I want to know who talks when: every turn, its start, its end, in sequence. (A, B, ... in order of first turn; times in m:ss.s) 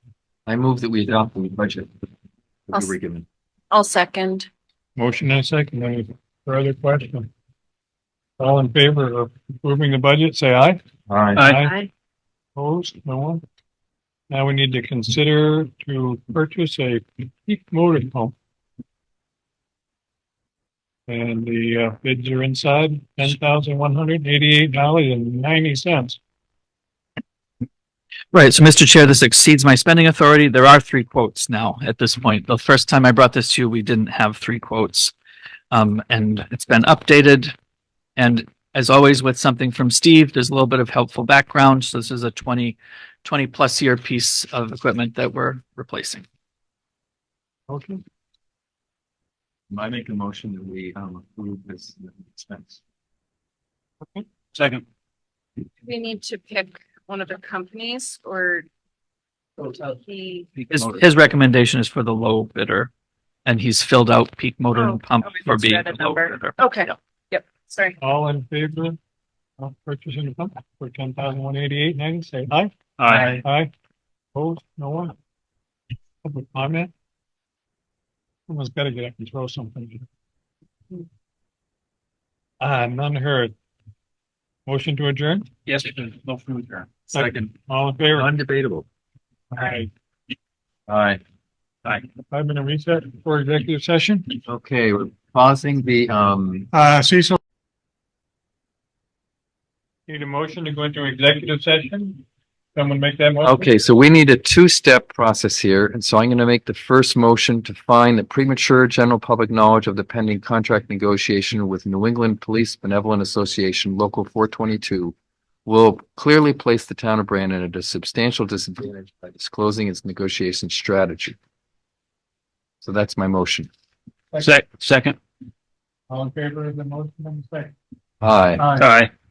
0:00.4-0:01.9 A
0:02.7-0:03.2 A
0:03.7-0:04.5 B
0:05.0-0:07.3 C
0:08.4-0:10.8 C
0:11.1-0:11.4 A
0:11.3-0:11.7 C
0:11.6-0:11.9 B
0:12.5-0:13.4 C
0:14.3-0:18.3 C
0:21.1-0:26.2 C
0:28.3-0:35.1 D
0:35.7-0:37.5 D
0:38.2-0:46.2 D
0:47.7-0:48.0 C
0:49.7-0:52.8 A
0:54.5-0:54.8 E
0:55.8-0:58.6 B
0:59.6-1:00.5 B
1:00.6-1:01.0 A
1:00.7-1:02.9 D
1:03.4-1:06.7 D
1:04.7-1:08.0 B
1:08.0-1:09.0 C
1:09.6-1:12.7 C
1:13.0-1:13.3 E
1:13.3-1:13.7 C
1:14.3-1:15.1 C
1:16.2-1:16.9 C
1:18.5-1:20.0 C
1:22.6-1:23.5 C
1:24.6-1:25.5 C
1:25.7-1:26.9 E
1:27.1-1:27.4 A
1:27.1-1:28.3 C
1:28.1-1:28.8 A
1:29.5-1:29.9 C
1:30.9-1:31.2 A
1:32.3-1:34.4 C
1:34.4-1:36.7 A
1:36.7-1:37.4 C
1:40.1-1:42.2 C
1:42.7-1:43.7 C
1:43.4-2:01.4 A
2:02.8-2:03.7 A
2:04.4-2:05.2 E
2:06.1-2:07.7 C
2:08.2-2:08.7 A
2:08.6-2:08.9 C
2:08.8-2:09.1 E